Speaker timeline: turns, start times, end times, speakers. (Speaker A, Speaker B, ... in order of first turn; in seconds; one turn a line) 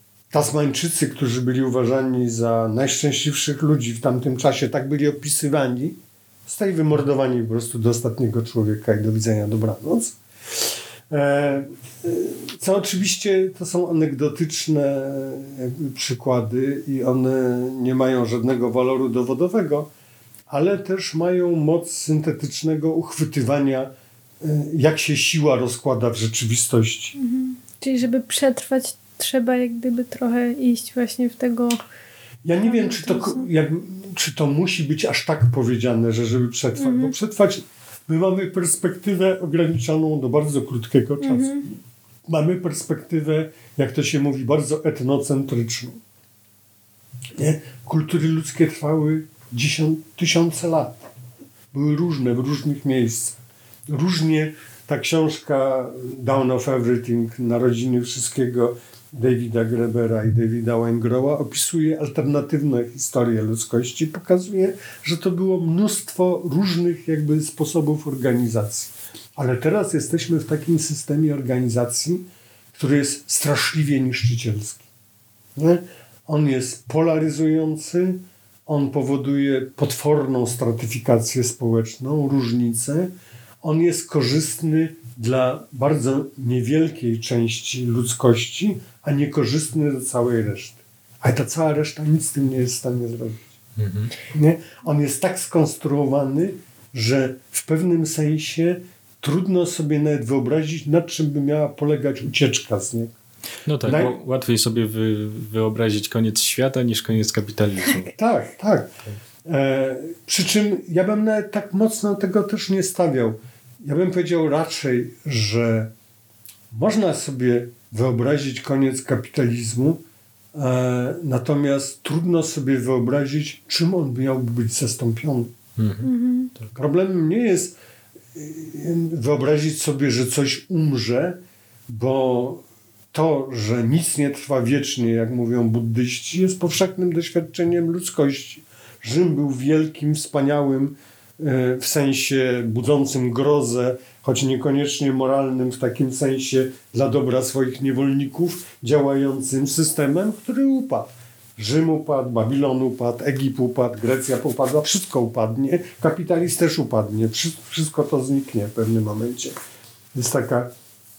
Speaker A: 0.3-19.9
Speaker A: 20.5-27.1
Speaker B: 27.1-31.8
Speaker A: 32.4-41.7
Speaker B: 32.7-33.4
Speaker B: 36.8-37.1
Speaker B: 41.2-41.6
Speaker A: 42.3-46.0
Speaker A: 47.4-51.0
Speaker A: 51.7-74.8
Speaker A: 75.5-83.1
Speaker A: 83.6-93.5
Speaker C: 93.8-94.1
Speaker A: 94.3-103.2
Speaker C: 103.7-108.1
Speaker A: 103.8-104.2
Speaker A: 108.0-108.9
Speaker A: 109.4-115.9
Speaker A: 116.7-120.0
Speaker A: 120.5-125.5
Speaker C: 125.8-126.1
Speaker B: 126.0-126.5
Speaker A: 126.7-127.8
Speaker A: 128.3-159.6
Speaker A: 160.1-160.7